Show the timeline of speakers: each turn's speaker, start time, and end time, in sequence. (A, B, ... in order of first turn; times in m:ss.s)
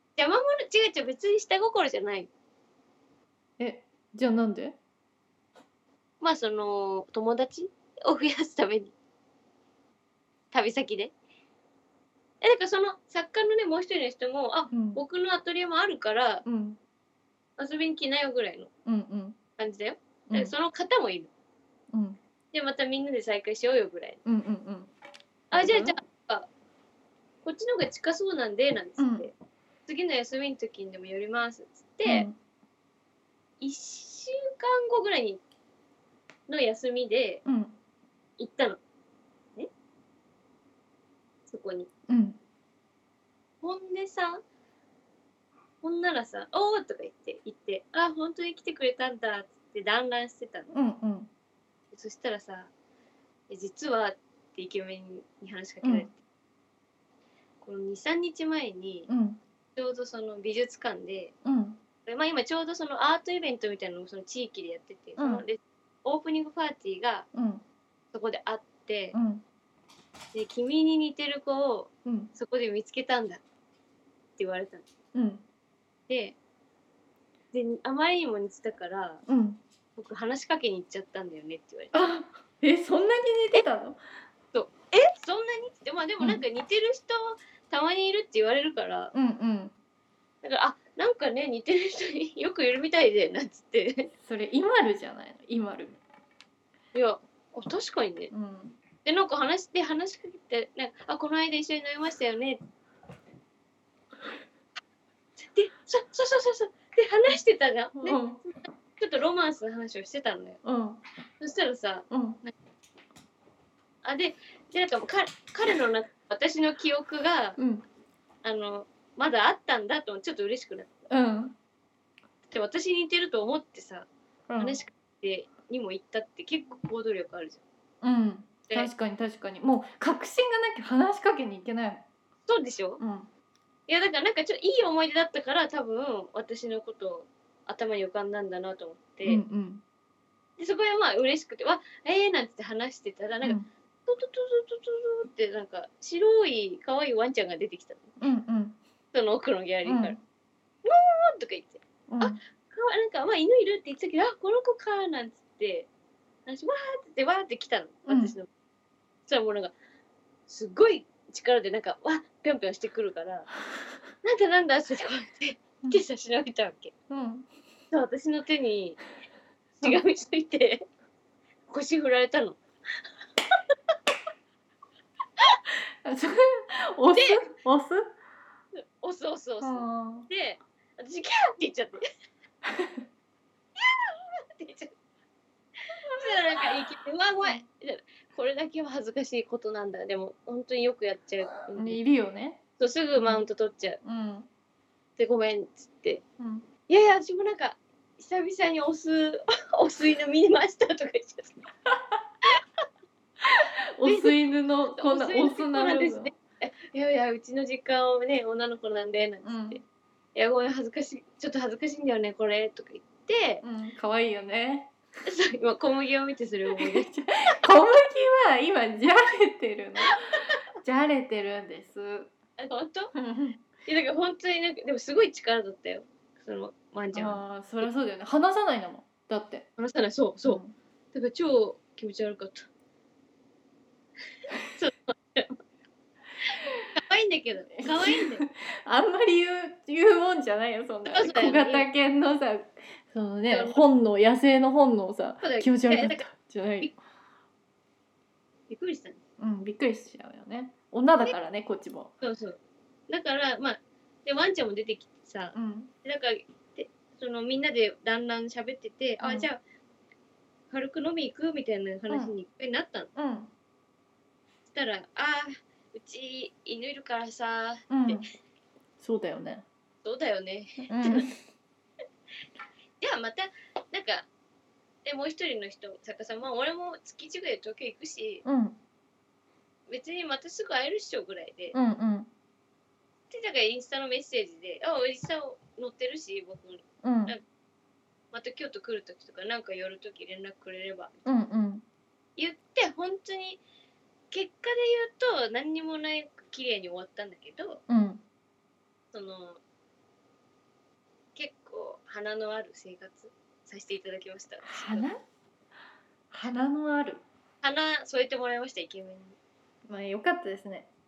0:00.2-0:02.3 A
0:03.6-0:04.8 B
0:06.2-0:08.9 A
0:10.5-0:11.1 A
0:12.4-0:16.4 A
0:14.7-0:15.0 B
0:16.4-0:16.8 B
0:17.6-0:18.7 A
0:18.9-0:19.4 B
0:19.6-0:21.3 A
0:21.9-0:22.2 B
0:22.5-0:24.2 A
0:24.2-0:24.9 B
0:25.5-0:26.5 A
0:25.5-0:26.0 B
0:27.4-0:29.3 A
0:29.0-0:29.3 B
0:29.9-0:32.3 A
0:32.0-0:32.4 B
0:33.6-0:35.4 A
0:36.5-0:37.4 A
0:37.4-0:37.8 B
0:38.4-0:38.8 A
0:41.5-0:41.9 A
0:42.1-0:42.4 B
0:43.6-0:44.4 A
0:45.8-0:50.7 A
0:50.7-0:51.3 B
0:51.9-0:52.7 A
0:53.5-0:56.2 A
0:55.8-0:56.1 B
0:57.6-0:59.1 A
0:59.1-0:59.4 B
0:59.8-1:01.3 A
1:01.4-1:01.8 B
1:02.1-1:07.3 A
1:05.2-1:05.4 B
1:07.3-1:07.6 B
1:08.1-1:09.2 A
1:09.1-1:09.4 B
1:10.3-1:13.4 A
1:12.0-1:12.3 B
1:14.4-1:14.8 A
1:15.1-1:15.4 B
1:16.1-1:16.4 A
1:17.5-1:19.2 A
1:19.3-1:19.6 B
1:20.0-1:22.0 A
1:21.9-1:24.0 B
1:24.5-1:29.1 A
1:29.1-1:29.7 B
1:30.4-1:34.1 A
1:34.2-1:36.0 B
1:36.9-1:38.3 A
1:38.3-1:38.8 B
1:39.0-1:42.6 A
1:45.4-1:48.2 A
1:48.0-1:48.4 B
1:49.0-1:50.6 A
1:50.6-1:51.0 B
1:51.4-1:52.5 A
1:52.1-1:52.4 B
1:54.0-1:57.6 A
1:57.6-1:57.8 B
1:58.4-2:00.9 A
2:01.1-2:01.6 B
2:02.5-2:07.6 A
2:04.5-2:04.8 B
2:08.0-2:12.1 B
2:12.5-2:13.0 A
2:13.0-2:13.3 B
2:13.9-2:19.4 A
2:19.2-2:19.8 B
2:20.6-2:28.1 A
2:23.4-2:23.7 B
2:28.2-2:28.8 B
2:29.1-2:30.2 A
2:29.8-2:30.2 B
2:30.8-2:35.9 A
2:32.1-2:32.4 B
2:36.5-2:38.5 A
2:38.1-2:38.4 B
2:39.3-2:39.7 A
2:40.5-2:43.5 A
2:44.2-2:46.9 A
2:47.1-2:47.5 B
2:47.9-2:49.0 A
2:49.8-2:50.8 A
2:51.7-2:52.6 A
2:56.0-2:58.1 B
2:57.1-2:57.5 A
2:58.8-3:02.0 A
2:59.6-3:00.3 B
3:02.7-3:03.0 B
3:03.8-3:04.9 A
3:06.1-3:06.6 B
3:06.1-3:12.0 A
3:11.8-3:12.6 B
3:12.8-3:14.0 A
3:13.2-3:13.4 B
3:14.0-3:14.5 B
3:15.2-3:16.2 A
3:16.4-3:16.7 B
3:16.9-3:21.6 A
3:23.5-3:26.3 B
3:24.0-3:24.4 A
3:24.9-3:29.8 A
3:29.4-3:29.8 B
3:30.4-3:33.6 A
3:33.6-3:34.9 B
3:35.2-3:37.1 A
3:36.7-3:40.2 B
3:40.0-3:40.6 A
3:40.8-3:42.3 B
3:42.6-3:43.1 A
3:43.1-3:43.6 B
3:43.9-3:47.4 A
3:47.1-3:49.7 B
3:49.8-3:50.6 A
3:50.4-3:50.8 B
3:51.1-3:52.7 A
3:54.7-3:55.6 A
3:56.9-3:58.4 A
3:57.8-4:07.0 B
4:01.1-4:01.9 A
4:03.5-4:03.8 A
4:05.4-4:06.2 A
4:08.7-4:09.2 A
4:09.4-4:12.1 B
4:12.2-4:12.6 A
4:13.1-4:19.6 A
4:15.5-4:15.9 B
4:19.2-4:19.5 B
4:20.7-4:23.1 A
4:22.1-4:22.3 B
4:23.2-4:23.5 B
4:24.7-4:28.2 A
4:27.9-4:28.2 B
4:29.0-4:29.6 B
4:30.0-4:31.3 A
4:30.9-4:31.3 B
4:33.0-4:34.3 A
4:35.0-4:38.4 A
4:38.4-4:38.8 B
4:39.9-4:41.8 A
4:41.7-4:42.3 B
4:43.3-4:47.4 A
4:47.0-4:47.4 B
4:48.3-4:51.2 A
4:51.2-4:51.8 B
4:52.4-4:53.6 A
4:54.3-4:57.8 A
4:57.9-4:58.2 B
4:59.1-4:59.6 A
5:01.4-5:05.1 A
5:04.7-5:05.2 B
5:06.3-5:07.2 B
5:07.6-5:09.4 A
5:09.9-5:10.9 B